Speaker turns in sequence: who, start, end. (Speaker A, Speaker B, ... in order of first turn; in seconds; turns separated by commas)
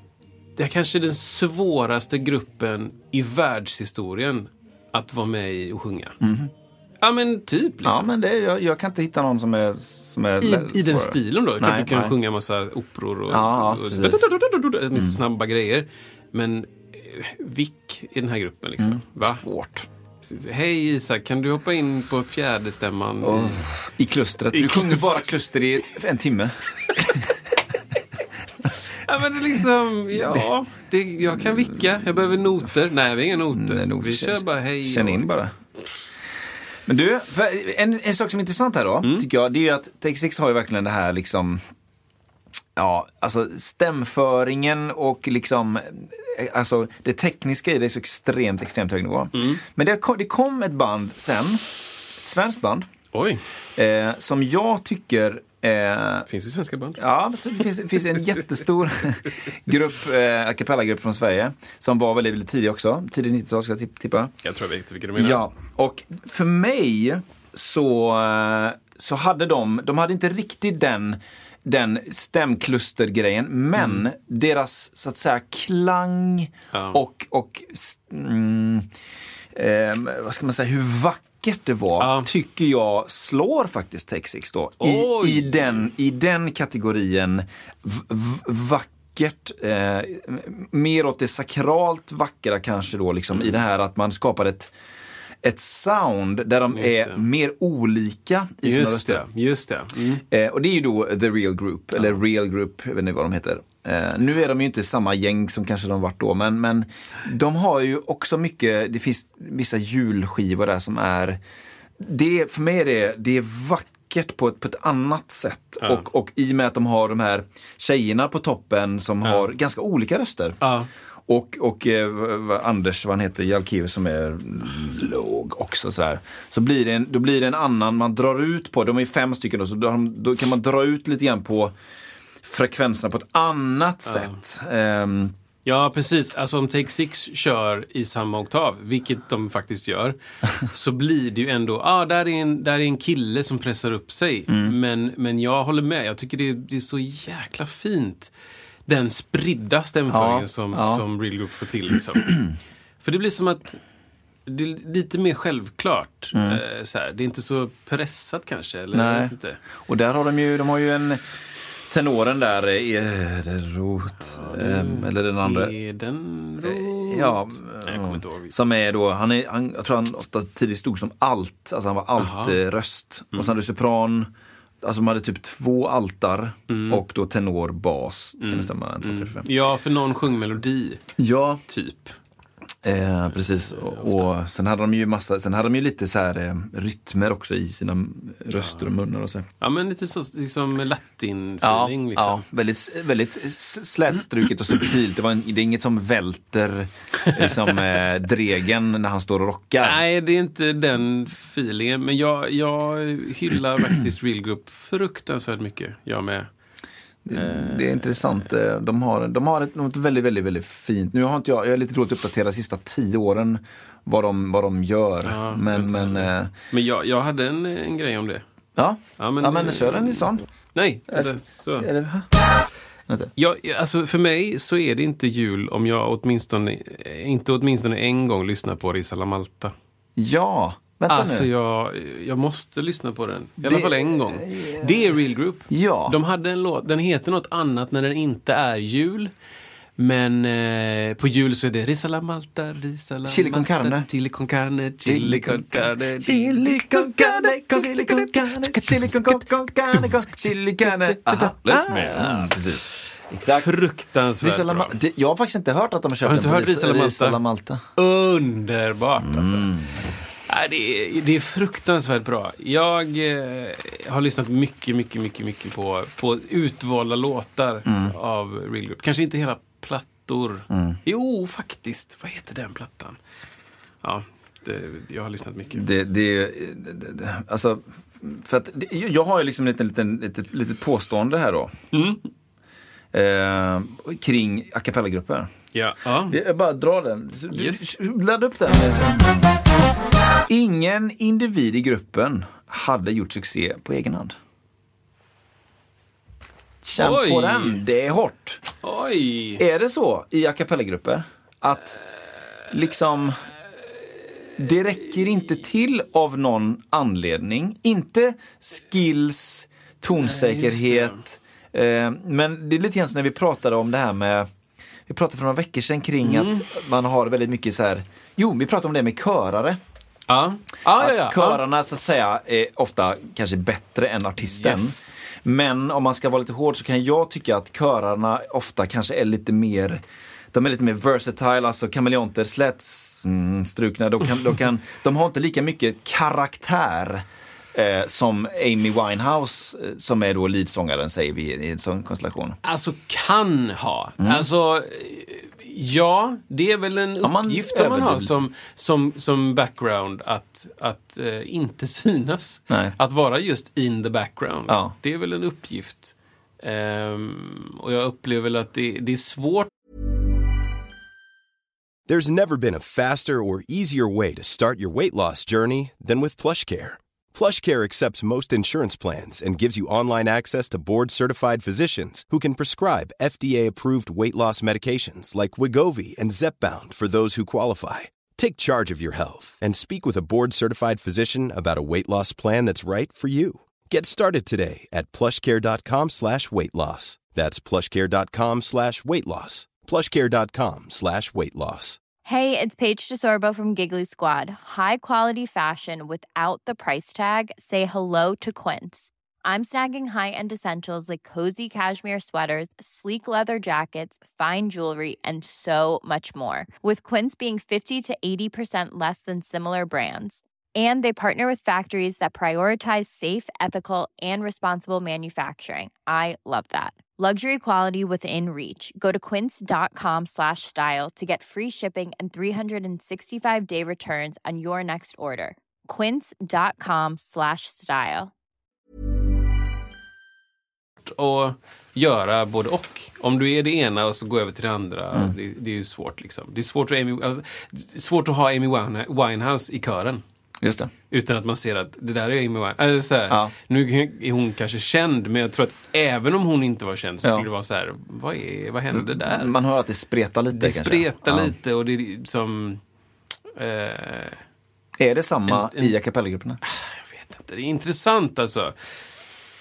Speaker A: 0.6-6.2, Speaker B: 6.2-6.5, Speaker A: 7.0-8.1, Speaker B: 7.8-12.2, Speaker A: 10.4-19.4, Speaker B: 13.3-14.3, Speaker B: 18.8-19.9, Speaker A: 20.2-23.6, Speaker B: 23.2-27.3, Speaker A: 24.5-25.3, Speaker A: 29.0-35.4, Speaker B: 30.1-30.5, Speaker B: 33.5-35.5, Speaker B: 36.9-41.6, Speaker B: 42.8-51.6, Speaker A: 49.4-49.6, Speaker B: 52.2-52.9, Speaker A: 53.1-53.4, Speaker B: 53.8-56.3, Speaker A: 56.3-57.0, Speaker B: 57.0-64.3, Speaker A: 64.4-65.4, Speaker B: 65.2-78.9, Speaker A: 73.8-74.0, Speaker A: 76.7-77.0, Speaker B: 79.5-94.7, Speaker A: 82.0-82.3, Speaker A: 84.8-85.9, Speaker B: 95.4-99.2, Speaker A: 96.7-97.2, Speaker A: 98.6-100.2, Speaker B: 100.3-111.4, Speaker B: 112.0-120.6, Speaker A: 115.8-116.1, Speaker A: 120.6-120.9, Speaker B: 121.3-131.8, Speaker B: 132.4-135.3, Speaker A: 134.1-134.4, Speaker A: 135.7-148.3, Speaker B: 144.5-144.8, Speaker A: 148.9-152.4, Speaker B: 150.1-151.0, Speaker A: 153.0-153.8, Speaker A: 154.5-159.6, Speaker B: 156.3-156.6, Speaker B: 158.9-161.2, Speaker B: 161.9-165.7, Speaker A: 164.2-168.5, Speaker B: 166.6-174.3, Speaker A: 172.2-172.6, Speaker B: 174.8-179.4, Speaker A: 176.7-177.0, Speaker A: 178.4-181.0, Speaker B: 181.2-181.6, Speaker A: 181.7-182.2, Speaker B: 182.8-189.5, Speaker A: 183.4-184.3, Speaker A: 188.5-188.9, Speaker A: 189.6-192.4, Speaker B: 191.6-200.0, Speaker A: 197.2-197.7, Speaker A: 199.8-206.5, Speaker B: 207.2-216.5, Speaker A: 207.3-208.4, Speaker A: 215.2-218.4, Speaker B: 218.8-220.4, Speaker A: 219.2-221.9, Speaker B: 221.1-222.3, Speaker A: 223.4-229.7, Speaker B: 230.2-231.5, Speaker A: 231.1-239.3, Speaker B: 233.6-235.1, Speaker B: 235.7-236.2, Speaker A: 240.0-252.7, Speaker B: 243.2-244.1, Speaker B: 245.1-253.7, Speaker A: 253.5-255.0, Speaker B: 254.4-257.8, Speaker A: 256.2-257.4, Speaker A: 258.0-259.7, Speaker B: 259.2-260.1, Speaker A: 260.5-273.2, Speaker B: 267.9-268.1, Speaker B: 270.7-271.0, Speaker A: 274.0-275.9, Speaker B: 275.7-281.7, Speaker A: 281.9-282.2, Speaker B: 283.1-285.5, Speaker A: 285.7-286.4, Speaker B: 286.3-289.4, Speaker A: 287.5-287.9, Speaker B: 290.5-294.4, Speaker B: 296.9-298.6, Speaker A: 297.0-297.8, Speaker A: 298.8-299.6, Speaker B: 299.6-302.0, Speaker B: 302.7-303.4, Speaker B: 304.6-314.5, Speaker A: 310.1-311.2, Speaker B: 315.1-319.8, Speaker A: 316.2-316.7, Speaker A: 320.3-321.6, Speaker B: 321.0-330.0, Speaker A: 324.5-325.1, Speaker B: 330.5-342.6, Speaker A: 342.6-359.7, Speaker B: 344.2-344.5, Speaker B: 347.2-348.4, Speaker B: 354.7-354.9, Speaker C: 362.1-392.0, Speaker D: 392.2-428.3, Speaker A: 431.0-440.2, Speaker B: 440.6-440.9, Speaker A: 441.1-449.5, Speaker B: 448.9-451.6, Speaker A: 450.5-452.8, Speaker A: 453.6-454.4, Speaker B: 455.0-456.6, Speaker A: 455.5-456.0, Speaker A: 456.6-458.7